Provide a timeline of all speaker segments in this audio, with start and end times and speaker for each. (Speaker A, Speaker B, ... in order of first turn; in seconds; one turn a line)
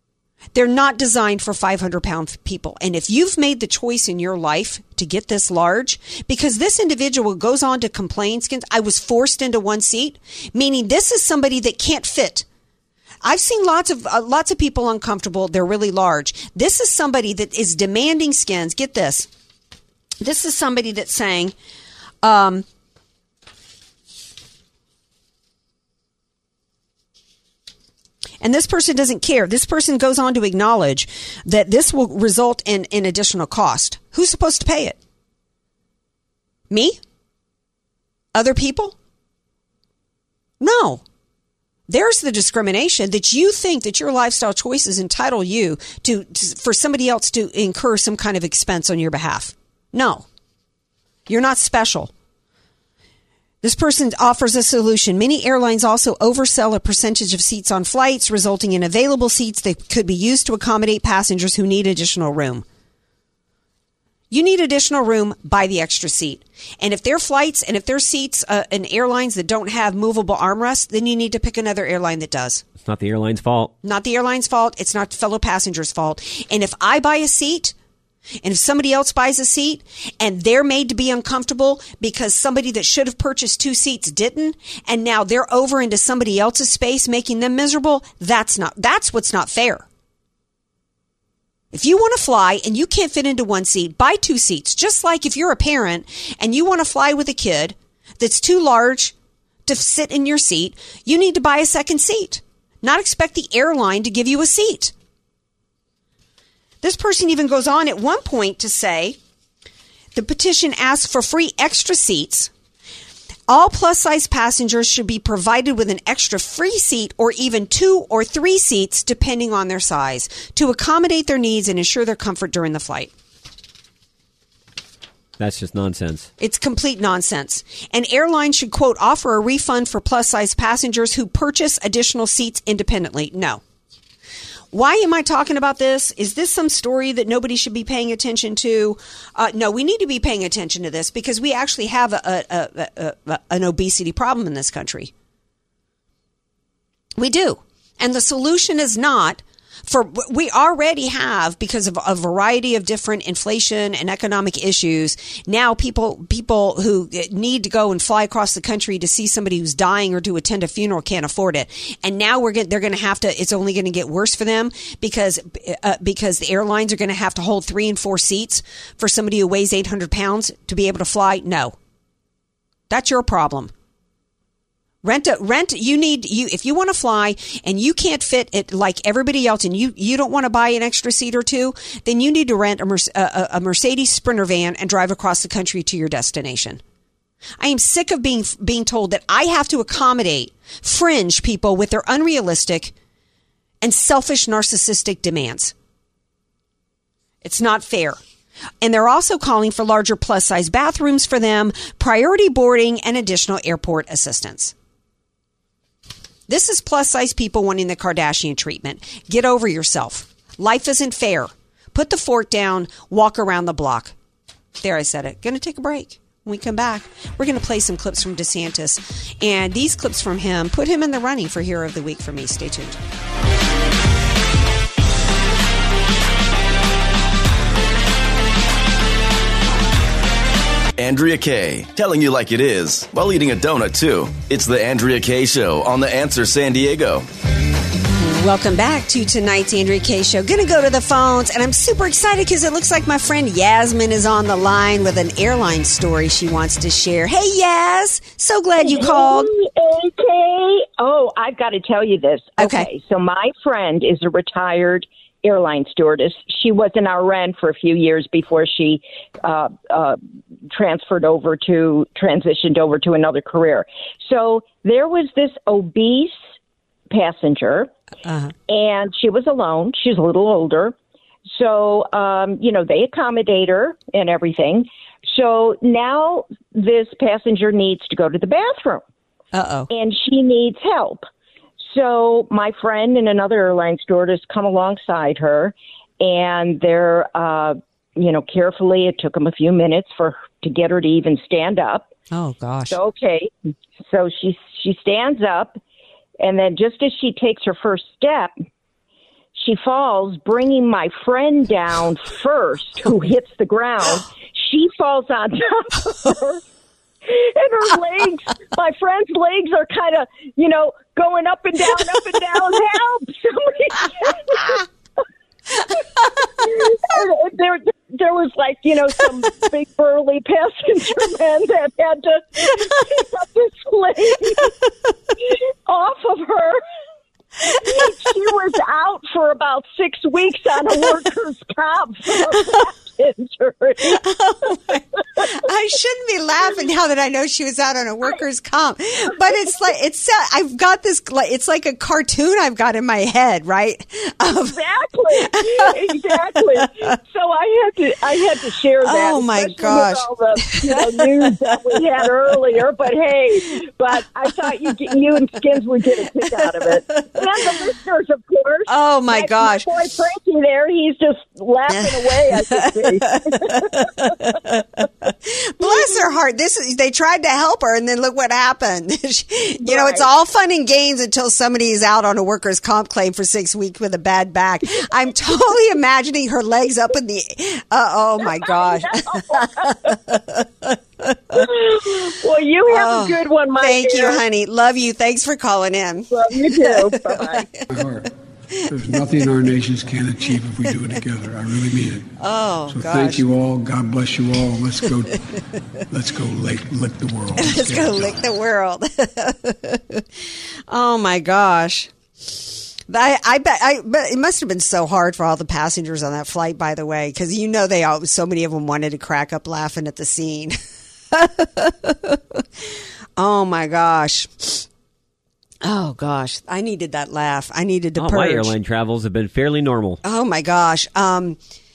Speaker A: 0.5-12.4
Speaker A: 13.2-19.3
Speaker A: 20.2-21.5
Speaker A: 22.2-22.6
Speaker A: 28.4-35.0
Speaker A: 36.7-37.0
Speaker A: 38.3-39.0
Speaker A: 40.6-41.0
Speaker A: 41.9-50.2
Speaker A: 51.3-52.1
Speaker A: 53.6-62.6
Speaker A: 64.3-72.6
Speaker B: 72.8-73.7
Speaker A: 73.8-77.7
Speaker A: 78.4-89.8
Speaker A: 91.7-99.1
Speaker A: 99.7-104.9
Speaker A: 106.8-109.2
Speaker A: 110.1-112.5
Speaker A: 113.5-123.1
Speaker B: 125.4-126.3
Speaker A: 126.4-133.6
Speaker A: 134.7-145.1
Speaker A: 147.2-171.8
Speaker A: 172.9-173.7
Speaker A: 175.0-186.8
Speaker A: 187.6-192.9
Speaker A: 193.8-195.7
Speaker A: 197.4-198.2
Speaker A: 198.8-204.7
Speaker A: 206.5-214.1
Speaker A: 214.8-223.0
Speaker C: 231.0-237.3
Speaker A: 238.2-249.5
Speaker D: 248.8-260.2
Speaker A: 252.6-252.9
Speaker D: 260.7-266.4
Speaker D: 267.1-267.9
Speaker A: 268.3-268.5
Speaker D: 268.7-270.9
Speaker D: 271.5-279.0
Speaker A: 279.5-279.9
Speaker D: 279.9-281.2
Speaker D: 281.9-292.1
Speaker A: 292.3-293.0
Speaker D: 292.9-293.5
Speaker D: 294.0-295.8
Speaker D: 296.4-298.5
Speaker D: 299.6-306.6
Speaker D: 307.2-314.8
Speaker D: 315.8-324.7
Speaker D: 325.4-326.8
Speaker D: 327.6-334.2
Speaker A: 334.1-335.0
Speaker A: 335.5-344.8
Speaker D: 344.5-364.6
Speaker A: 345.4-347.1
Speaker A: 349.0-351.4
Speaker A: 358.9-359.9
Speaker A: 361.9-364.3
Speaker A: 365.4-381.6
Speaker D: 369.8-370.3
Speaker D: 378.4-380.2
Speaker D: 381.5-384.4
Speaker A: 382.9-387.5
Speaker D: 386.3-387.7
Speaker E: 387.9-388.3
Speaker E: 388.8-392.3
Speaker A: 392.4-393.4
Speaker E: 392.9-395.4
Speaker E: 396.1-398.4
Speaker A: 397.6-400.2
Speaker A: 400.9-402.1
Speaker A: 403.1-410.8
Speaker A: 411.3-412.6
Speaker A: 413.4-414.8
Speaker A: 415.8-418.7
Speaker B: 418.1-420.2
Speaker A: 420.2-421.6